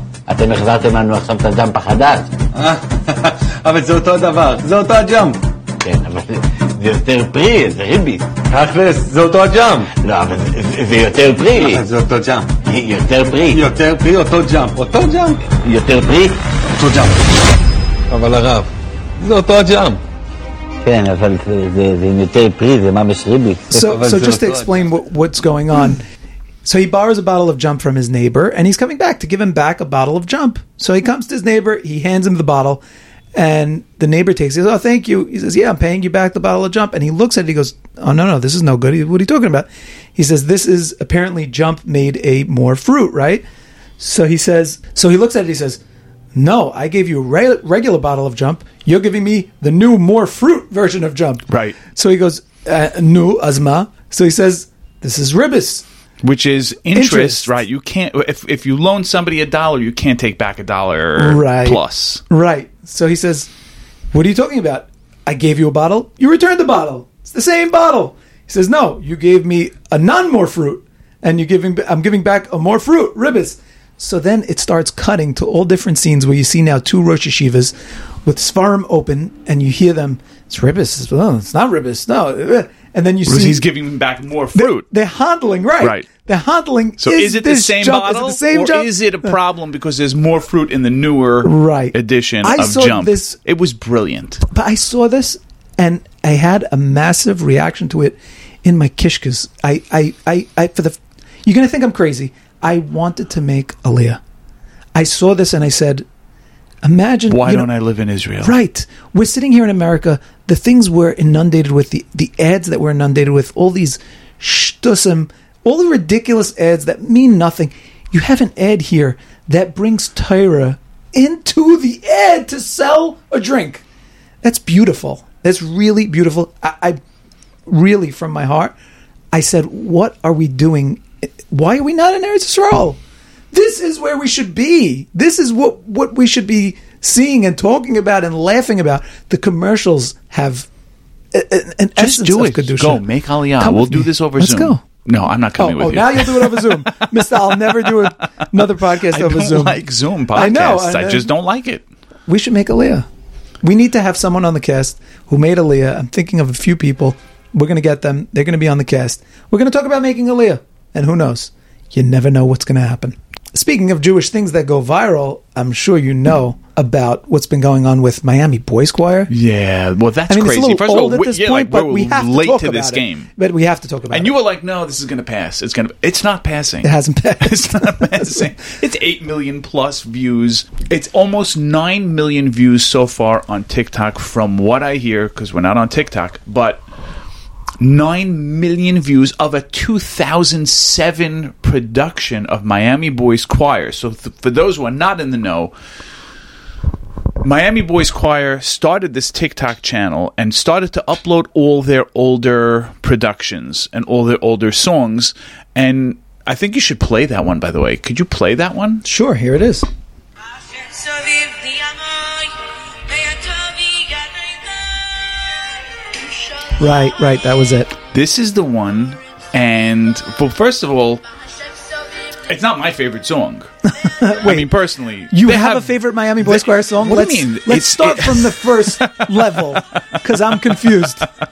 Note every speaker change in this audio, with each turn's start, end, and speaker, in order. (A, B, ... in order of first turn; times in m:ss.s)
0:00.3-0:02.3 A
0:02.5-0:05.4 B
0:05.8-0:08.3 A
0:08.5-0:09.9 B
0:10.0-0:11.8 A
0:11.6-0:12.6 B
0:12.6-0:13.6 A
0:13.5-0:15.4 B
0:15.5-0:16.4 A
0:16.8-0:17.2 B
0:18.1-0:20.0 B
0:20.8-0:23.9 A
0:23.7-0:26.0 C
0:23.8-0:24.7 B
0:26.6-0:32.8 C
0:33.3-0:43.4 C
0:44.0-0:45.8 C
0:46.3-0:55.8 C
0:51.5-0:51.8 D
0:56.2-1:02.2 D
0:56.9-0:57.5 C
1:01.2-1:03.5 C
1:04.1-1:17.7 C
1:18.2-1:23.6 C
1:23.2-1:24.8 D
1:24.5-1:29.3 C
1:25.8-1:26.0 D
1:27.0-1:34.4 D
1:31.4-1:33.4 C
1:34.5-1:44.2 C
1:44.9-1:46.0 C
1:46.8-1:47.7 C
1:47.3-1:48.6 D
1:48.4-2:03.8 C
2:04.4-2:07.0 C
2:07.7-2:08.7 C
2:09.3-2:13.0 C
2:13.5-2:20.7 C
2:21.3-2:23.0 C
2:22.0-2:28.1 D
2:23.6-2:24.8 C
2:25.6-2:31.3 C
2:28.9-2:31.8 D
2:32.3-2:33.1 C
2:33.6-2:49.3 C
2:49.3-2:53.3 D
2:50.3-2:54.3 C
2:54.1-3:06.8 D
2:56.8-2:58.5 C
3:07.8-3:15.7 D
3:17.4-3:29.0 D
3:29.0-3:29.8 C
3:36.7-3:37.9 C
3:38.1-3:41.3 D
3:42.3-3:43.7 D
3:44.0-3:44.7 C
3:44.4-3:49.8 D
3:45.3-3:51.2 C